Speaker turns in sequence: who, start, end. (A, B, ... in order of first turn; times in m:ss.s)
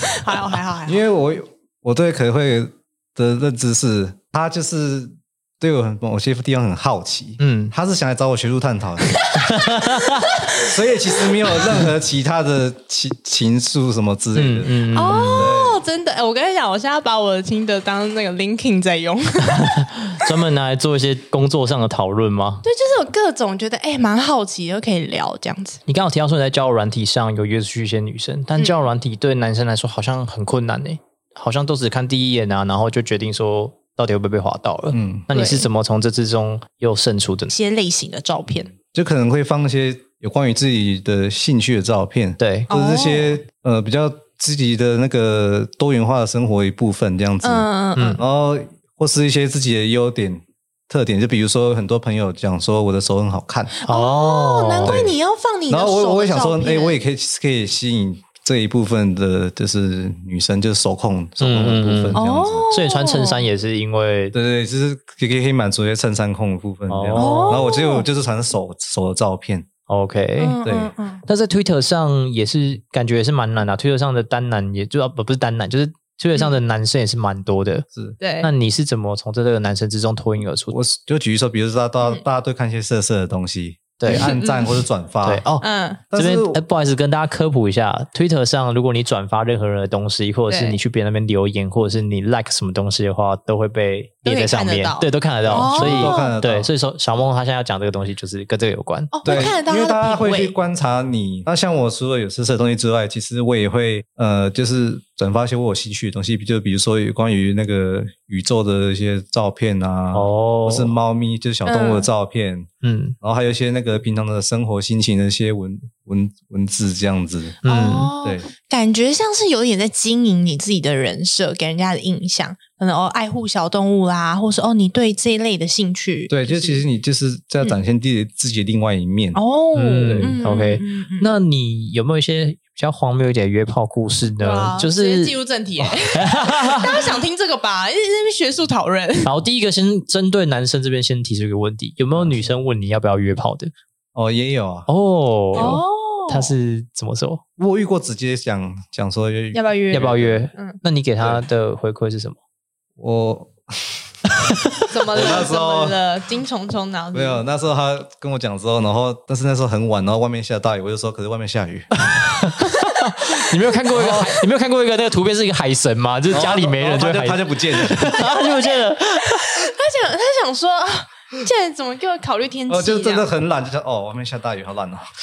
0:00.2-0:01.0 A
0:00.9-0:09.2 B
0:07.4-0:07.7 C
0:09.3-0:11.2 A
0:09.4-0:10.3 C
0:10.6-0:15.8 B
0:14.4-0:15.5 C
0:14.9-0:20.2 A
0:19.6-0:22.6 C
0:22.6-0:25.8 A
0:25.9-0:37.5 C
0:28.6-0:28.8 A
0:34.9-0:35.3 B
0:35.3-0:35.7 A
0:37.5-0:38.7 A
0:38.9-0:47.7 B
0:42.4-0:42.7 C
0:42.7-0:43.4 A
0:47.4-0:48.2 A
0:48.0-0:48.2 C
0:48.2-0:53.7 B
0:53.8-0:57.0 A
0:53.9-0:55.0 C
0:54.8-0:55.2 B
0:55.7-1:02.7 B
1:01.4-1:04.4 C
1:02.1-1:03.4 A
1:04.3-1:09.7 B
1:06.9-1:07.6 C
1:07.2-1:08.1 A
1:09.9-1:10.6 C
1:10.4-1:11.2 A
1:10.6-1:10.9 B
1:11.3-1:17.9 C
1:18.2-1:18.5 A
1:18.4-1:20.8 C
1:20.7-1:25.5 B
1:24.0-1:24.4 C
1:24.1-1:24.8 A
1:25.2-1:39.4 C
1:25.6-1:26.0 A
1:26.1-1:26.6 B
1:30.5-1:30.8 A
1:34.2-1:36.4 A
1:35.5-1:36.7 B
1:39.1-1:40.6 A
1:39.2-1:52.7 B
1:50.1-1:50.9 C
1:51.7-1:52.1 A
1:52.8-1:53.2 C
1:53.2-1:57.6 B
1:57.6-1:58.1 C
1:57.7-2:06.8 A
1:58.2-1:58.5 B
2:06.3-2:09.4 B
2:09.4-2:11.3 A
2:09.8-2:17.0 C
2:10.1-2:10.4 B
2:14.4-2:19.3 A
2:19.2-2:23.7 C
2:22.1-2:22.5 B
2:24.2-2:24.9 B
2:24.9-2:27.4 C
2:25.6-2:26.5 A
2:27.6-2:30.4 B
2:29.5-2:30.8 A
2:29.9-2:32.4 C
2:33.0-2:33.9 B
2:34.9-2:37.4 A
2:35.1-2:36.0 B
2:37.1-2:41.9 B
2:42.1-2:49.7 C
2:42.5-2:43.2 A
2:43.9-2:44.4 B
2:46.3-2:48.4 B
2:48.2-2:53.3 A
2:52.7-2:55.0 B